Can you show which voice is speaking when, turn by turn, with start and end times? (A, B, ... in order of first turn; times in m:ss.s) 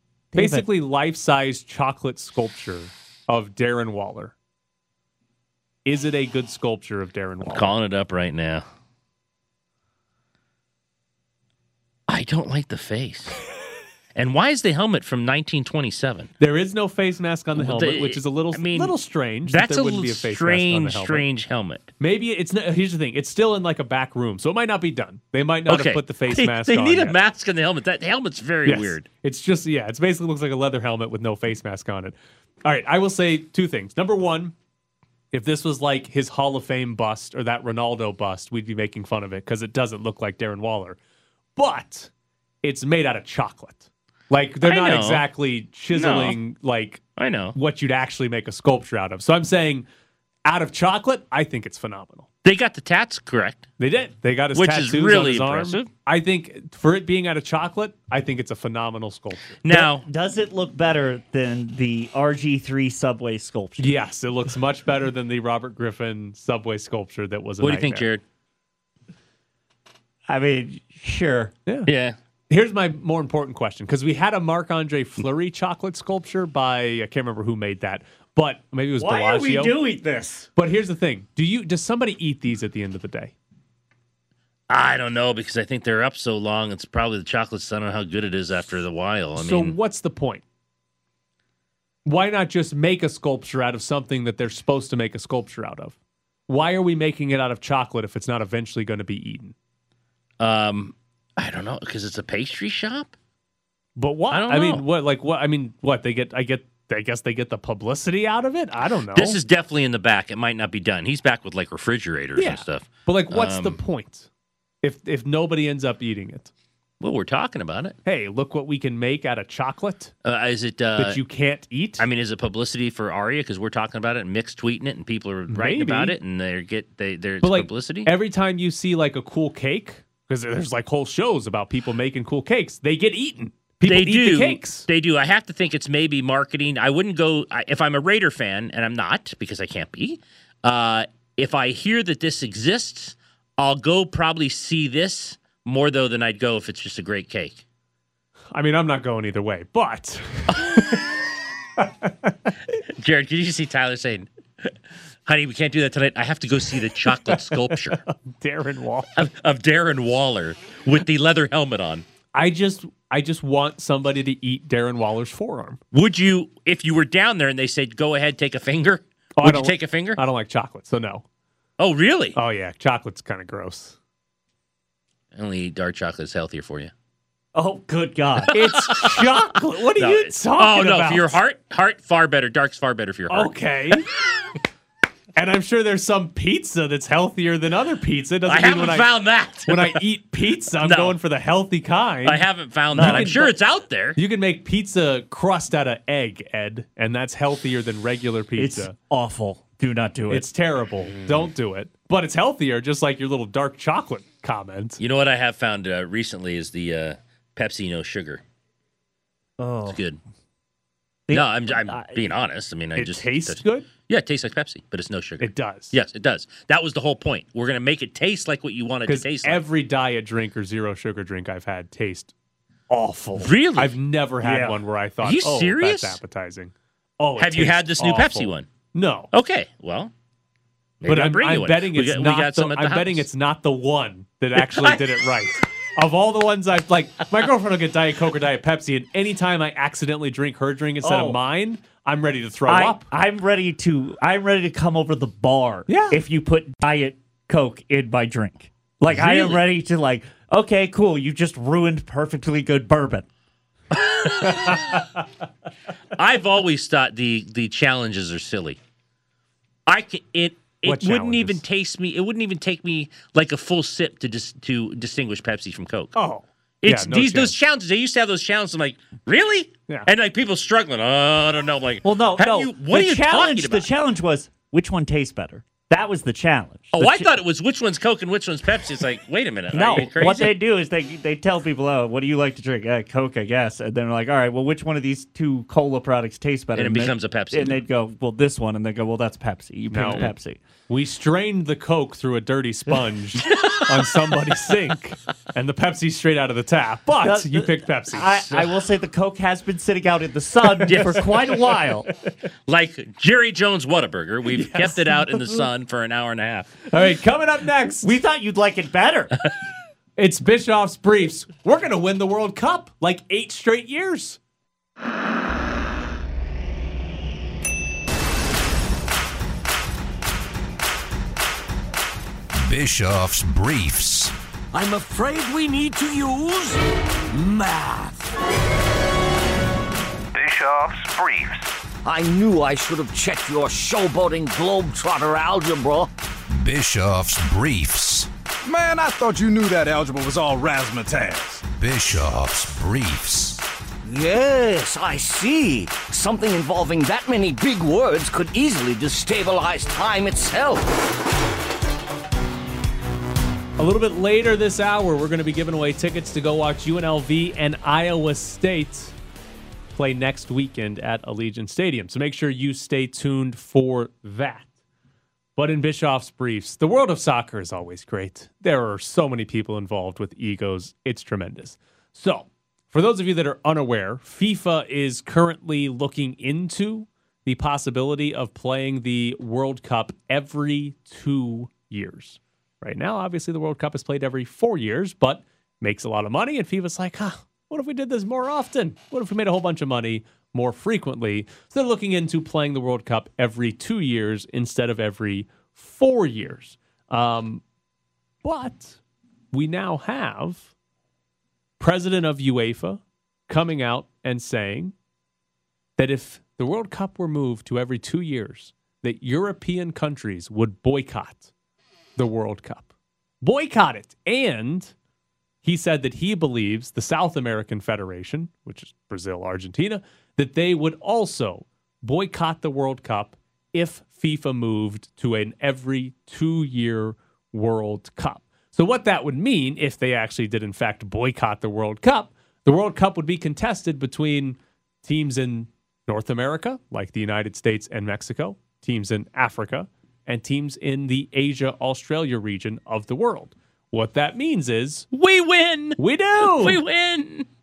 0:00.3-0:00.6 A
0:00.3-0:04.3 B
0:05.8-0:07.7 B
0:07.4-0:08.6 C
0:12.1-0:13.4 C
0:14.1-0:16.3 C
0:16.4-0:21.2 B
0:17.6-0:21.9 C
0:22.0-0:27.2 B
0:25.7-0:29.0 C
0:28.6-0:34.5 B
0:35.3-0:41.0 B
0:41.6-0:42.1 B
0:42.6-0:47.0 B
0:44.6-0:45.2 C
0:45.9-0:46.4 C
0:47.2-0:47.6 C
0:47.5-0:49.8 B
0:50.4-0:52.3 B
0:52.4-0:53.6 C
0:53.8-0:59.6 B
0:54.5-0:55.9 C
0:59.6-1:00.0 C
0:59.7-1:04.0 A
1:03.8-1:08.1 B
1:07.6-1:08.2 C
1:10.3-1:11.5 A
1:11.9-1:12.2 C
1:12.5-1:19.7 B
1:19.0-1:20.5 A
1:20.6-1:23.3 B
1:24.7-1:29.7 C
1:29.4-1:30.4 B
1:32.0-1:36.0 B
1:36.5-1:39.5 B
1:40.4-1:43.1 C
1:44.0-1:49.4 B
1:44.3-1:44.8 C
1:49.1-1:53.8 C
1:52.4-1:54.3 B
1:54.8-1:56.5 B
1:57.0-1:58.0 C
1:58.0-2:00.1 B
2:00.2-2:01.2 C
2:01.0-2:02.0 B
2:02.0-2:08.1 C
2:05.5-2:06.1 B
2:07.4-2:14.8 B
2:13.8-2:27.6 C
2:28.5-2:31.0 B
2:31.8-2:32.3 B
2:33.0-2:34.7 C
2:35.2-2:38.0 C
2:37.2-2:39.2 B
2:39.2-2:42.0 C
2:42.3-2:45.8 B
2:45.9-2:50.2 C
2:49.4-2:51.2 B
2:51.8-2:52.4 C
2:52.3-2:54.0 B
2:55.3-2:56.9 C
2:57.5-2:58.5 A
2:58.5-2:59.4 C
2:58.5-3:01.4 B
3:00.0-3:03.5 C
3:03.3-3:04.1 B
3:05.4-3:09.1 B
3:08.5-3:10.0 C
3:09.6-3:13.5 B
3:10.8-3:11.2 C
3:12.2-3:14.2 C
3:12.9-3:13.4 A
3:14.2-3:18.9 B
3:18.6-3:20.5 A
3:20.3-3:25.0 B
3:25.0-3:28.4 C
3:29.6-3:30.0 A
3:29.8-3:30.2 C
3:31.3-3:32.2 A
3:31.3-3:39.6 C
3:33.0-3:33.9 B
3:35.4-3:35.9 B
3:39.0-3:42.3 B
3:42.9-3:49.3 B
3:43.4-3:43.9 C
3:44.4-3:44.8 A
3:45.2-3:46.2 C
3:47.4-3:48.7 C
3:49.3-3:50.1 C
3:51.0-3:53.2 C
3:51.0-4:03.1 B
3:54.7-3:55.0 C
4:01.0-4:01.4 A
4:02.7-4:13.3 A
4:05.9-4:06.2 B
4:09.1-4:09.6 C
4:13.9-4:15.0 C
4:16.2-4:18.8 C
4:19.9-4:26.1 C
4:20.8-4:21.6 B
4:26.1-4:27.5 B
4:26.8-4:33.9 C
4:32.0-4:37.3 A
4:36.9-4:40.6 C
4:39.7-4:50.6 A
4:46.7-4:47.8 C
4:49.9-4:50.3 B
4:50.9-4:58.5 B
4:53.5-4:53.8 C
4:57.2-5:02.1 A
5:00.8-5:01.4 C
5:02.7-5:06.8 C
5:04.5-5:05.4 B
5:06.9-5:08.1 B
5:08.0-5:09.5 A
5:10.2-5:14.4 B
5:22.5-5:24.3 D
5:24.7-5:28.3 E
5:32.0-5:36.1 E
5:36.5-5:38.3 D
5:38.6-5:41.6 F
5:41.6-5:43.6 D
5:44.0-5:50.9 E
5:53.8-5:59.1 B
5:59.9-6:04.7 B
6:05.6-6:37.6 B
6:38.4-6:39.0 B
6:39.5-6:40.7 B
6:41.8-6:44.9 B
6:46.0-6:51.5 B
6:52.2-6:52.9 B
6:53.4-6:54.9 B
6:55.6-7:25.1 B
7:25.1-7:27.5 C
7:26.0-7:26.8 B